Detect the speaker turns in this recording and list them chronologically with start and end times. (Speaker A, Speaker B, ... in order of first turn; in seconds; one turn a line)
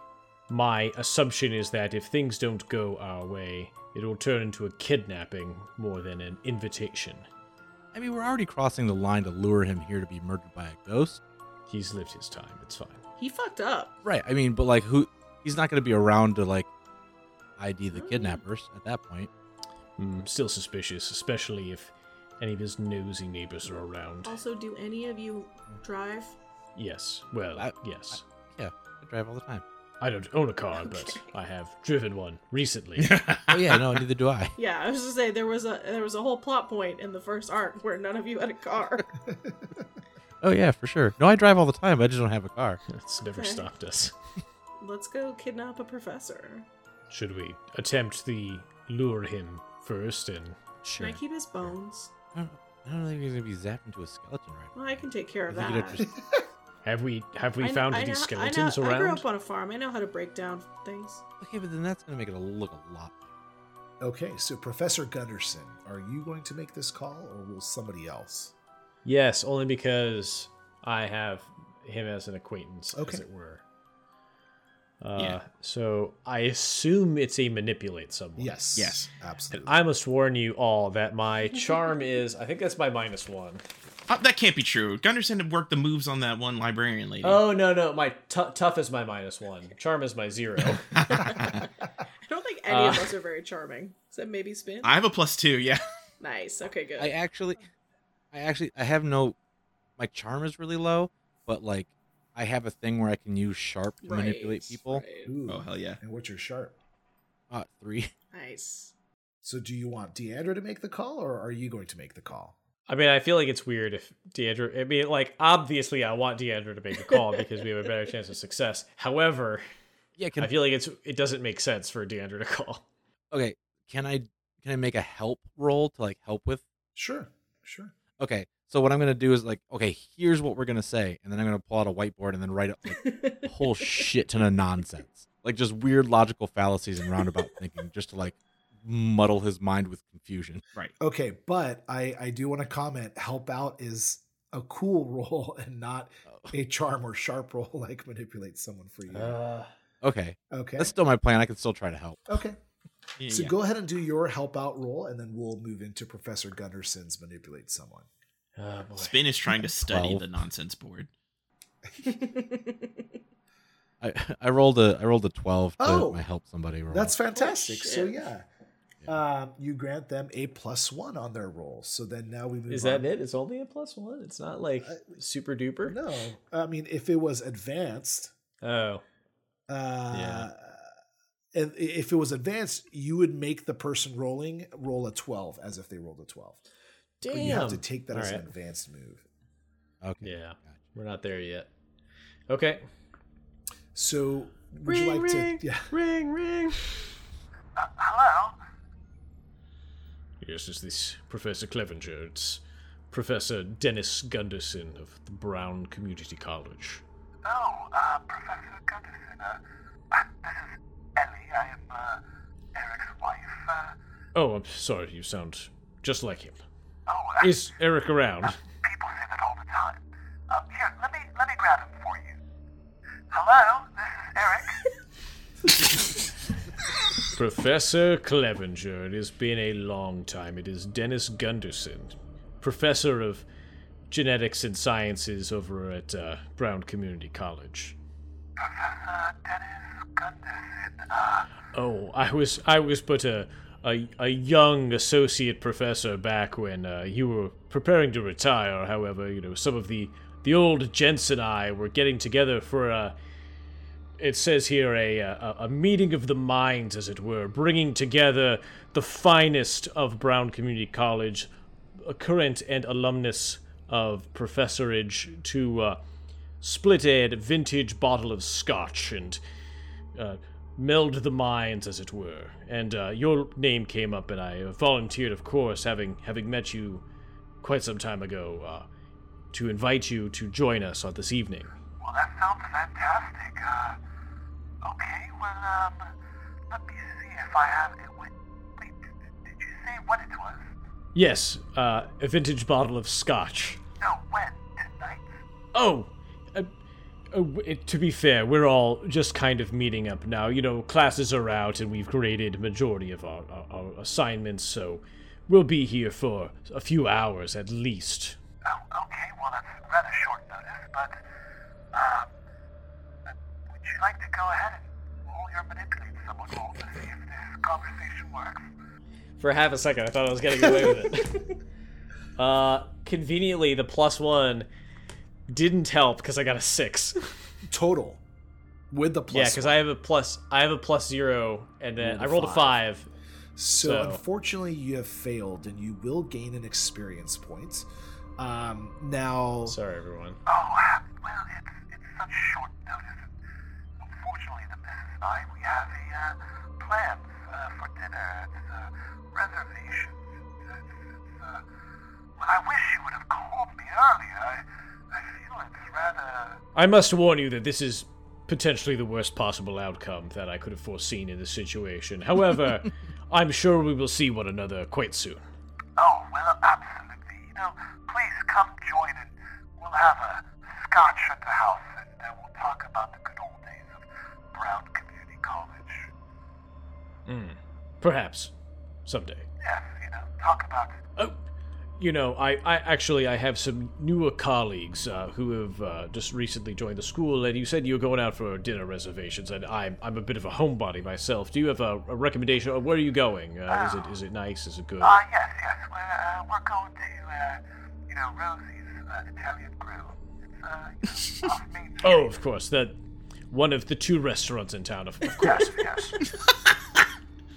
Speaker A: 0.5-7.3
Speaker B: 7.9-11.2
Speaker A: 11.7-13.0
Speaker C: 13.2-13.9
Speaker B: 14.0-16.7
Speaker B: 17.6-19.3
Speaker C: 17.9-18.4
Speaker A: 20.0-24.4
Speaker C: 24.2-26.4
Speaker A: 26.8-28.2
Speaker B: 27.6-29.6
Speaker A: 30.0-33.1
Speaker C: 30.7-31.3
Speaker B: 33.0-34.5
Speaker D: 33.5-33.8
Speaker C: 34.6-39.1
Speaker B: 40.4-42.8
Speaker A: 42.9-44.1
Speaker C: 43.3-43.7
Speaker C: 44.8-46.7
Speaker A: 47.1-50.6
Speaker B: 50.8-51.8
Speaker C: 50.9-52.1
Speaker B: 52.4-56.1
Speaker C: 54.8-56.1
Speaker E: 56.0-56.4
Speaker A: 56.9-59.3
Speaker C: 57.6-61.2
Speaker B: 61.4-63.3
Speaker E: 64.0-68.5
Speaker A: 69.0-73.6
Speaker E: 72.9-73.2
Speaker A: 75.0-78.6
Speaker E: 78.4-79.8
Speaker D: 78.8-79.1
Speaker A: 79.5-83.6
Speaker D: 84.1-87.4
Speaker A: 87.2-91.4
Speaker D: 90.9-91.6
Speaker C: 91.2-91.6
Speaker C: 92.2-94.9
Speaker A: 92.7-93.1
Speaker D: 94.8-95.8
Speaker C: 96.2-97.2
Speaker B: 97.0-97.6
Speaker B: 98.3-99.4
Speaker B: 100.0-105.0
Speaker C: 104.0-105.3
Speaker E: 105.2-106.8
Speaker D: 105.5-106.0
Speaker B: 107.5-108.1
Speaker C: 108.3-108.9
Speaker E: 109.4-112.5
Speaker A: 112.9-119.7
Speaker B: 120.2-120.5
Speaker A: 120.3-122.9
Speaker B: 123.3-126.7
Speaker E: 127.0-127.9
Speaker B: 128.2-140.6
Speaker C: 132.9-134.1
Speaker E: 141.0-149.4
Speaker B: 146.3-146.5
Speaker A: 149.1-149.7
Speaker B: 150.0-152.2
Speaker E: 150.5-150.9
Speaker E: 152.3-152.6
Speaker D: 153.2-153.6
Speaker E: 153.3-158.1
Speaker A: 158.6-159.3
Speaker D: 159.0-161.1
Speaker B: 159.9-160.3
Speaker E: 161.9-162.1
Speaker C: 162.1-163.1
Speaker B: 164.0-167.2
Speaker E: 165.8-166.2
Speaker E: 166.9-168.5
Speaker C: 167.3-168.3
Speaker E: 169.1-173.1
Speaker A: 172.7-176.0
Speaker E: 175.8-178.3
Speaker A: 178.6-179.0
Speaker E: 179.7-180.9
Speaker A: 180.1-180.5
Speaker E: 181.5-186.6
Speaker A: 187.2-188.5
Speaker E: 187.3-189.2
Speaker B: 190.0-190.8
Speaker A: 190.2-191.7
Speaker A: 192.5-192.9
Speaker E: 193.9-195.9
Speaker A: 194.8-197.1
Speaker F: 197.8-198.6
Speaker A: 200.4-207.0
Speaker F: 207.4-212.2
Speaker F: 212.7-213.9
Speaker A: 214.3-216.7
Speaker F: 217.1-217.7
Speaker A: 217.4-218.6
Speaker F: 218.8-222.4
Speaker F: 223.3-224.9
Speaker A: 227.3-233.5
Speaker A: 234.1-238.0
Speaker F: 238.6-241.5
Speaker A: 241.7-253.2
Speaker A: 254.2-266.0
Speaker A: 266.6-269.4
Speaker A: 270.1-277.1
Speaker A: 277.6-278.9
Speaker A: 279.5-281.8
Speaker F: 282.0-284.0
Speaker F: 284.8-286.1
Speaker F: 286.7-290.7
Speaker A: 291.1-293.8
Speaker F: 294.0-295.4
Speaker A: 295.7-296.7
Speaker A: 297.3-308.4
Speaker F: 308.6-311.2
Speaker F: 311.9-312.3
Speaker F: 313.7-318.7
Speaker A: 319.4-321.4
Speaker A: 322.4-324.7
Speaker A: 325.5-327.3
Speaker E: 327.7-328.2
Speaker E: 328.9-329.8
Speaker A: 329.3-333.1
Speaker E: 332.0-332.8
Speaker E: 333.6-339.8
Speaker A: 333.8-334.2
Speaker A: 339.7-340.4
Speaker F: 340.5-343.3
Speaker F: 344.0-351.6
Speaker F: 352.4-356.6
Speaker A: 356.8-365.5
Speaker F: 366.0-374.0
Speaker F: 374.5-376.1
Speaker A: 377.3-378.5
Speaker A: 379.1-379.5
Speaker F: 379.6-381.0
Speaker A: 381.2-381.4
Speaker A: 382.0-395.1
Speaker F: 393.7-394.2
Speaker F: 395.0-402.3
Speaker A: 402.0-406.2
Speaker F: 405.4-406.2